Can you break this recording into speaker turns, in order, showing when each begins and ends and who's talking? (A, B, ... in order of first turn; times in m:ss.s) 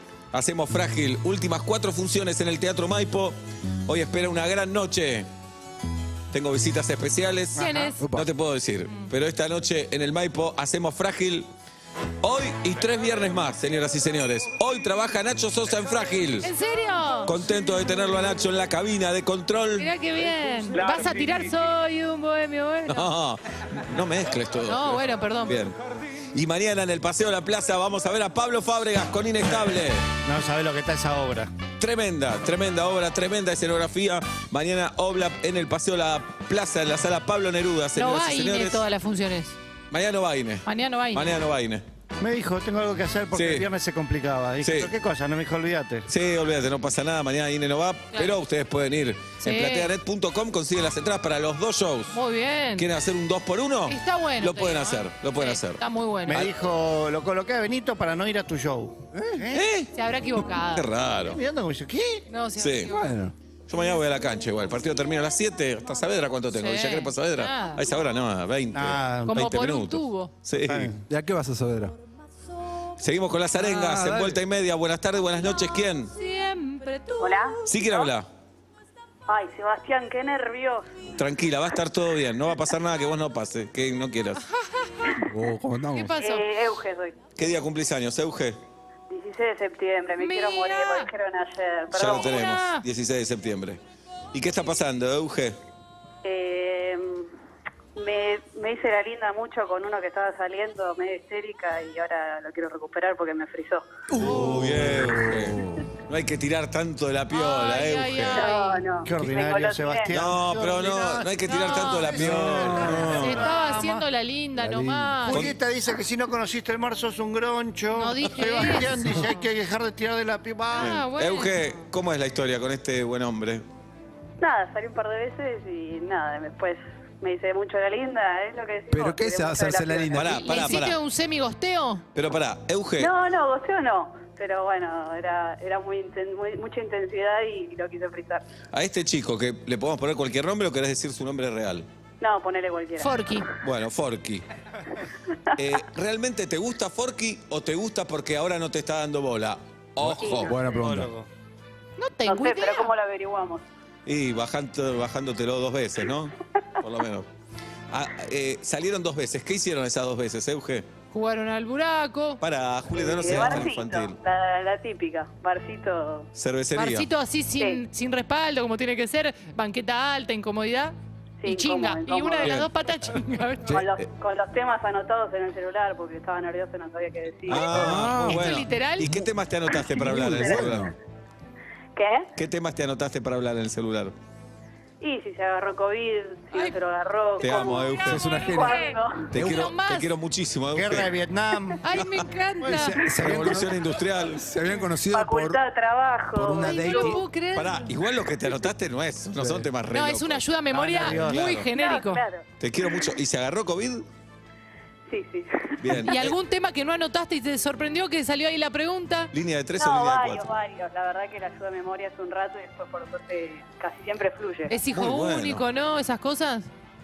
0:00.3-0:05.3 A
0:06.3-0:11.5 A
0:07.6-0:08.0 B
0:08.0-0:08.3 C
0:12.2-0:16.5 A
0:16.4-0:17.3 B
0:17.3-0:19.9 A
0:19.8-0:23.1 B
0:22.9-0:25.8 A
0:24.7-0:25.6 B
0:26.3-0:30.1 A
0:30.2-0:31.5 D
0:31.8-0:38.8 A
0:38.0-0:39.6 B
0:39.9-0:41.8 A
0:40.7-0:41.3 B
0:42.2-0:46.1 D
0:43.3-0:43.7 A
0:44.6-0:44.9 A
0:46.1-0:52.2 A
0:49.4-0:49.9 B
0:52.1-0:52.9 B
0:52.8-0:56.5 A
0:53.9-0:56.4 B
0:56.3-0:59.7 D
0:59.1-0:59.4 C
0:59.5-0:59.9 A
0:59.9-1:00.9 B
1:00.7-1:01.4 A
1:01.2-1:02.3 D
1:02.3-1:03.1 B
1:02.6-1:02.9 A
1:02.9-1:03.4 C
1:03.7-1:10.9 A
1:06.6-1:07.8 B
1:08.7-1:09.5 D
1:09.3-1:10.3 B
1:10.6-1:11.0 D
1:11.1-1:12.0 C
1:13.0-1:16.1 A
1:13.6-1:14.4 C
1:16.1-1:18.1 B
1:17.2-1:17.6 E
1:17.7-1:18.3 A
1:19.3-1:20.8 E
1:21.2-1:24.4 A
1:24.6-1:25.2 B
1:25.3-1:26.2 C
1:26.0-1:26.4 B
1:26.2-1:27.2 E
1:27.4-1:28.6 A
1:29.1-1:32.2 E
1:30.2-1:31.1 B
1:31.9-1:33.8 A
1:32.0-1:32.8 B
1:34.3-1:35.6 A
1:36.2-1:37.3 E
1:38.0-1:43.9 E
1:44.1-1:45.9 C
1:44.2-1:48.4 A
1:44.2-1:44.5 B
1:47.3-1:48.9 B
1:48.3-1:50.2 E
1:49.0-1:54.0 D
1:50.1-1:53.5 A
1:51.5-1:52.1 B
1:52.1-1:53.3 C
1:53.2-1:55.4 B
1:54.6-1:55.4 C
1:55.3-2:01.0 D
1:58.0-1:59.4 B
2:00.7-2:01.7 B
2:00.8-2:03.6 A
2:04.4-2:10.3 E
2:08.9-2:10.8 C
2:10.1-2:11.0 A
2:10.4-2:12.0 B
2:12.2-2:13.1 A
2:13.0-2:18.4 E
2:18.7-2:21.9 A
2:22.2-2:23.3 E
2:23.0-2:23.5 B
2:23.6-2:24.4 A
2:25.6-2:30.5 A
2:30.0-2:31.1 C
2:30.2-2:30.7 E
2:30.7-2:31.3 D
2:32.0-2:32.9 B
2:32.2-2:33.6 E
2:34.1-2:37.3 A
2:37.9-2:40.9 A
2:41.1-2:42.4 B
2:42.4-2:44.2 A
2:43.0-2:46.3 E
2:46.4-2:47.1 A
2:46.8-2:53.8 B
2:51.4-2:52.7 E
2:53.7-2:57.7 E
2:57.5-3:00.9 A
2:57.6-2:59.2 C
2:57.8-2:59.2 B
2:59.9-3:00.9 C
3:02.0-3:02.3 E
3:02.4-3:04.2 A
3:05.0-3:09.3 E
3:07.4-3:10.1 B
3:07.4-3:08.4 A
3:08.1-3:08.8 C
3:09.3-3:11.1 A
3:10.8-3:11.9 D
3:11.8-3:13.0 B
3:12.6-3:13.6 D
3:12.7-3:13.8 C
3:13.2-3:14.5 A
3:14.4-3:15.6 C
3:15.1-3:17.2 E
3:16.3-3:17.2 C
3:16.6-3:17.9 B
3:17.5-3:20.4 A
3:19.9-3:22.2 B
3:20.7-3:21.6 D
3:21.0-3:21.7 A
3:21.7-3:22.4 E
3:22.6-3:24.0 A
3:25.1-3:26.1 E
3:25.8-3:26.4 A
3:26.0-3:29.3 B
3:29.3-3:30.5 A
3:29.8-3:34.7 E
3:34.7-3:36.7 B
3:34.9-3:35.6 A